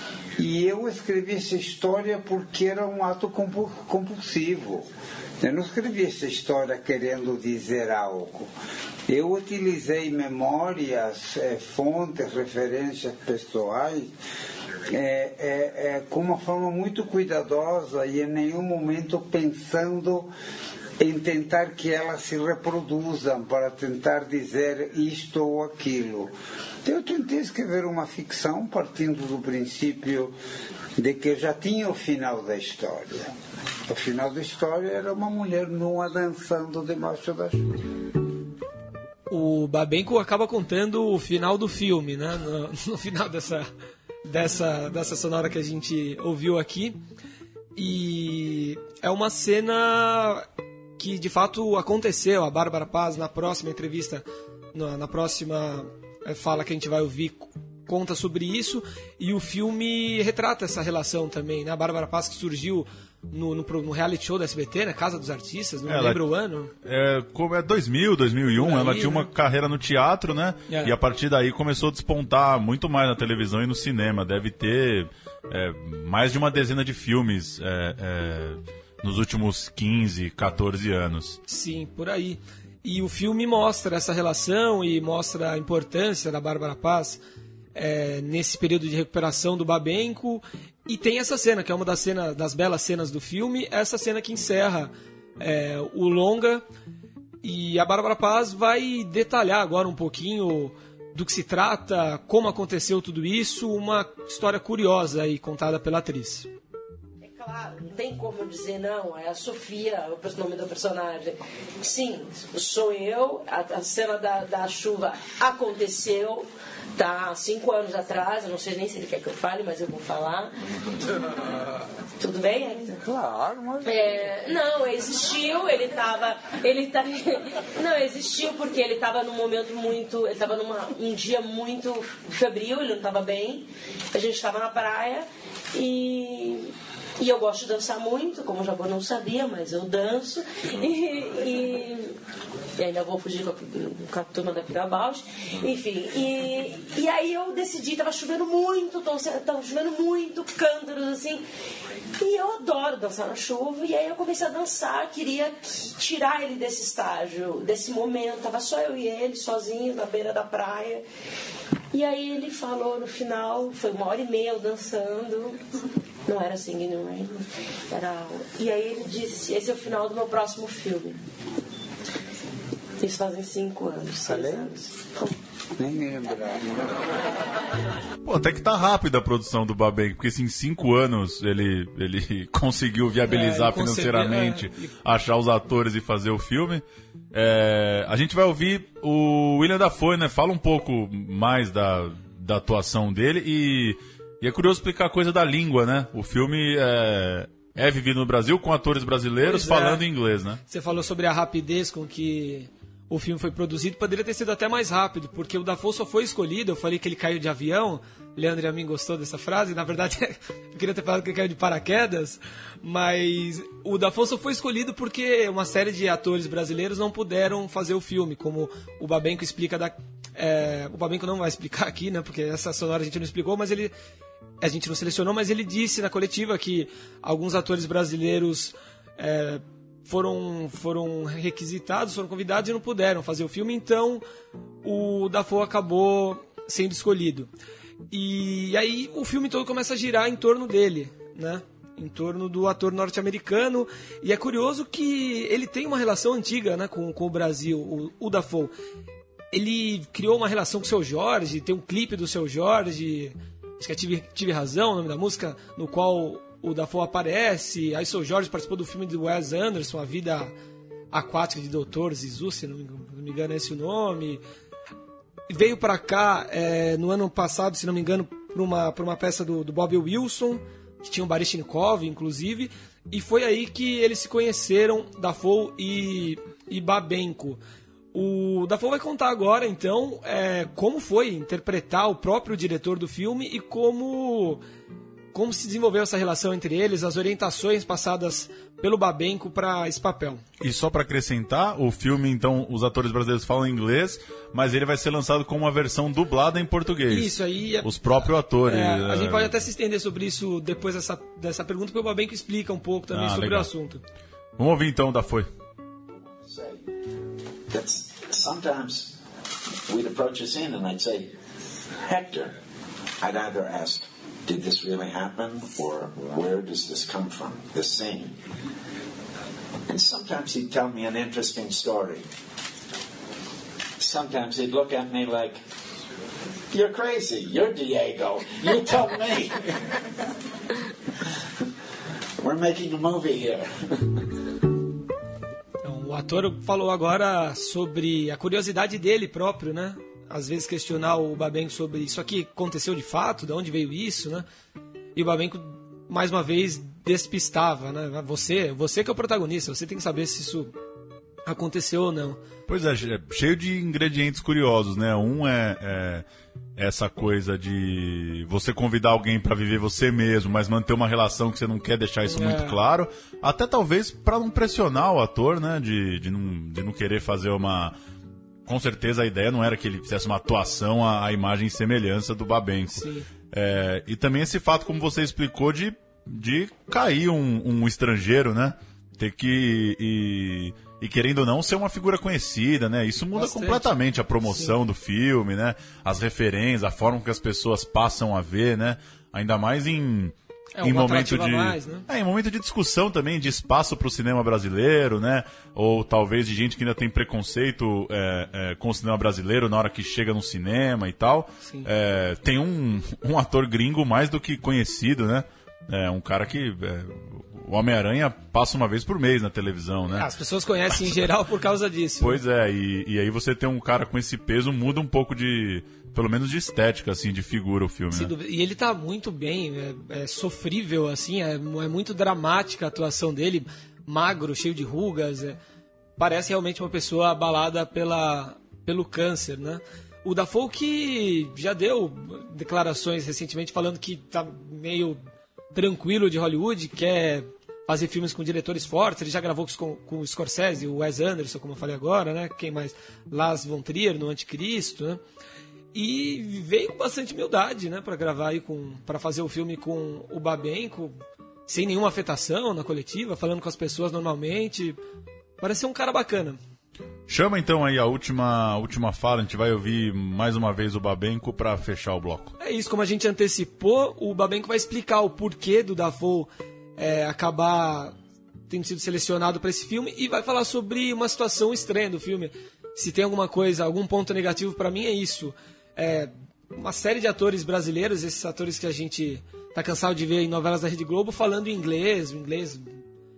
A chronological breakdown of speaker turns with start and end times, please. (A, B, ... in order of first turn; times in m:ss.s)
0:00.4-0:08.5 A
0:09.1-0:14.2 A
0:14.9-0:20.3 A
0:21.0-0:30.4 A
0:31.0-0:33.4 A
0:33.9-0:37.7 A
0:39.3-0:43.7 B
0:44.2-0:47.0 B
0:47.8-0:50.4 B
0:51.0-1:06.7 B
1:05.9-1:06.2 C
1:06.8-1:21.4 C
1:08.6-1:09.3 B
1:10.7-1:10.9 B
1:21.5-1:27.2 B
1:27.8-1:36.6 B
1:37.4-1:46.5 B
1:47.2-2:00.6 D
2:02.2-2:03.0 D
2:03.1-2:03.8 A
2:03.8-2:22.2 D
2:22.8-2:31.4 D
2:32.2-2:41.0 D
2:41.9-2:45.6 D
2:46.3-2:51.2 D
2:53.0-2:55.4 D
2:54.2-2:54.7 A
2:55.8-2:57.2 A
2:58.2-3:20.6 C
3:03.3-3:04.9 B
3:19.4-3:20.1 B
3:20.7-3:43.9 B
3:44.6-3:54.2 B
3:54.8-3:57.5 B
3:58.1-4:08.7 B
4:09.5-4:20.5 B
4:21.1-4:24.4 B
4:25.5-4:37.6 B
4:38.1-4:44.6 B
4:45.3-4:50.4 B
4:50.6-4:59.5 C
4:57.1-4:57.9 B
4:58.6-5:04.0 B
5:03.1-5:03.7 C
5:04.6-5:05.5 C
5:06.4-5:06.9 E
5:07.7-5:09.2 E
5:09.9-5:11.3 E
5:12.0-5:12.6 E
5:13.2-5:18.4 E
5:19.9-5:22.2 E
5:24.0-5:25.6 E
5:26.7-5:29.8 E
5:32.4-5:34.2 E
5:35.8-5:44.4 B
5:45.2-5:50.7 B
5:51.5-5:52.4 B
5:52.7-5:56.2 C
5:56.8-6:08.0 C
6:02.3-6:02.8 B
6:08.7-6:50.3 C
6:12.9-6:13.3 B
6:23.4-6:23.9 B
6:24.5-6:24.7 B
6:30.8-6:32.1 B
6:50.1-6:52.4 B
6:52.2-6:58.3 C
6:58.1-7:05.6 B
7:06.2-7:15.2 B
7:15.7-7:25.2 B
7:25.9-7:31.2 B
7:31.7-7:35.0 B
7:35.6-7:36.6 B
7:37.3-7:42.5 C
7:42.6-7:48.1 B
7:48.7-8:02.9 B